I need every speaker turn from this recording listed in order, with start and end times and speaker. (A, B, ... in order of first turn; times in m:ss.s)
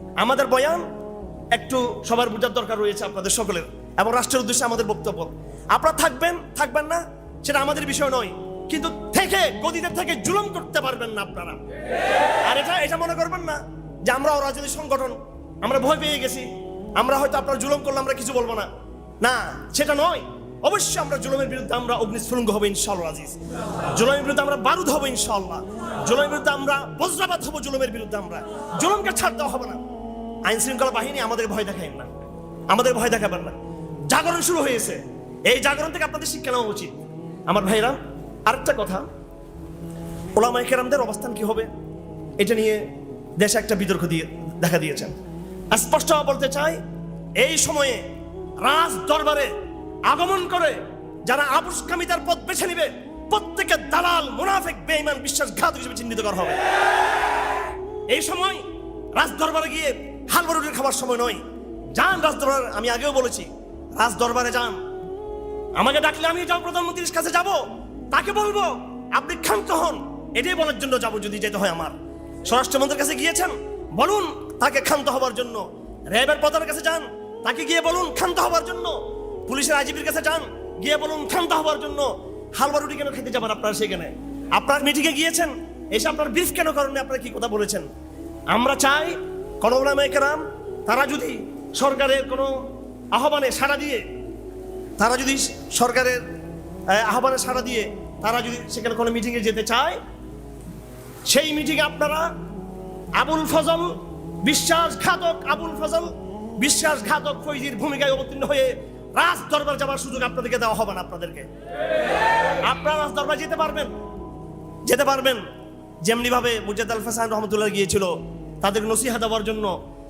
0:00.2-0:00.8 A
0:01.5-0:11.6 A
0:12.4-0:18.7 A
0:19.2-0:23.4 A
0:23.9-0:29.8 A
0:30.5-0:32.1 A
0:32.7-0:33.6 A
0:34.1-0:36.9 A
0:37.5-0:39.1 A
0:40.4-0:41.7 A
0:42.4-0:42.8 A
0:43.4-0:45.2 A
0:45.7-0:46.8 A
0:47.4-0:48.0 A
0:48.6-0:49.5 A
0:50.1-0:56.6 A
0:58.1-0:58.6 A
0:59.2-1:04.8 A
1:05.8-1:27.9 A
1:28.5-1:32.5 A
1:33.1-1:34.0 A
1:35.0-1:36.2 A
1:36.9-1:40.0 A
1:41.3-1:42.3 A
1:43.2-1:51.5 A
1:52.6-1:53.9 A
1:54.9-1:55.4 A
1:56.0-1:59.7 A